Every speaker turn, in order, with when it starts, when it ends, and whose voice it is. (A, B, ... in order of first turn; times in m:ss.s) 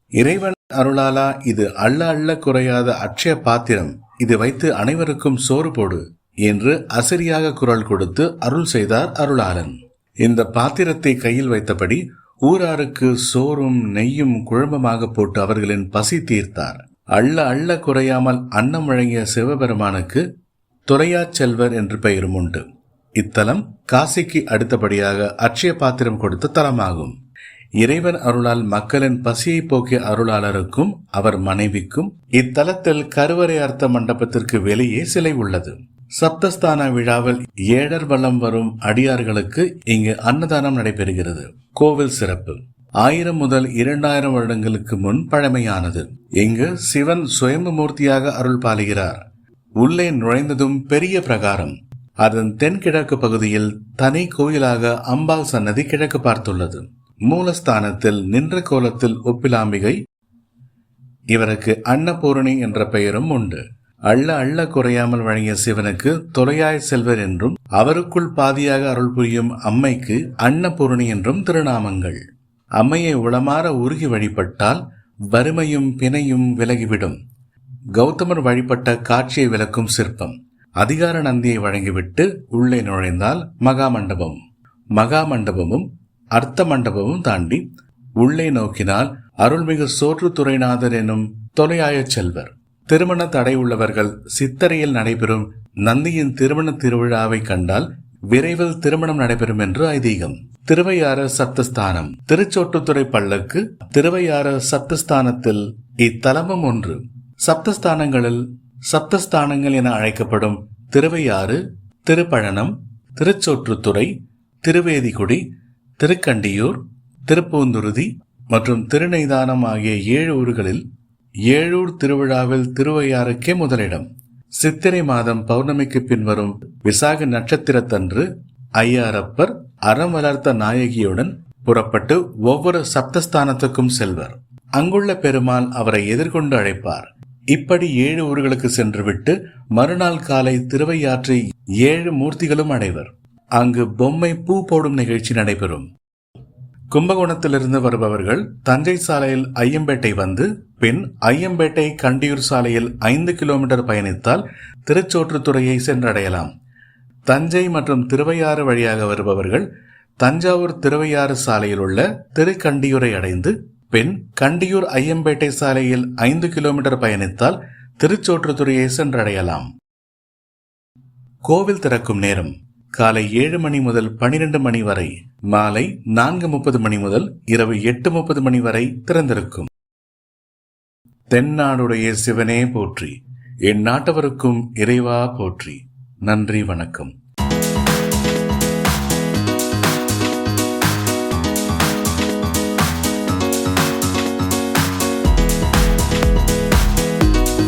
0:00.2-0:20.2 A
0:20.9-0:22.6 A
0:23.2-0:27.1 A
0:27.8-0:49.2 A
0:49.8-1:00.0 A
1:01.3-1:12.2 A
1:12.8-1:17.2 A
1:18.0-1:24.4 A
1:25.0-1:27.6 A
1:28.2-1:54.1 A
1:54.6-1:55.4 A
1:56.0-2:00.8 A
2:01.5-2:04.0 A
2:04.6-2:08.3 A
2:08.8-2:25.9 A
2:26.9-2:36.5 A
2:37.3-2:39.7 A
2:40.2-2:49.7 A
2:51.4-2:59.7 A
3:01.3-3:07.1 A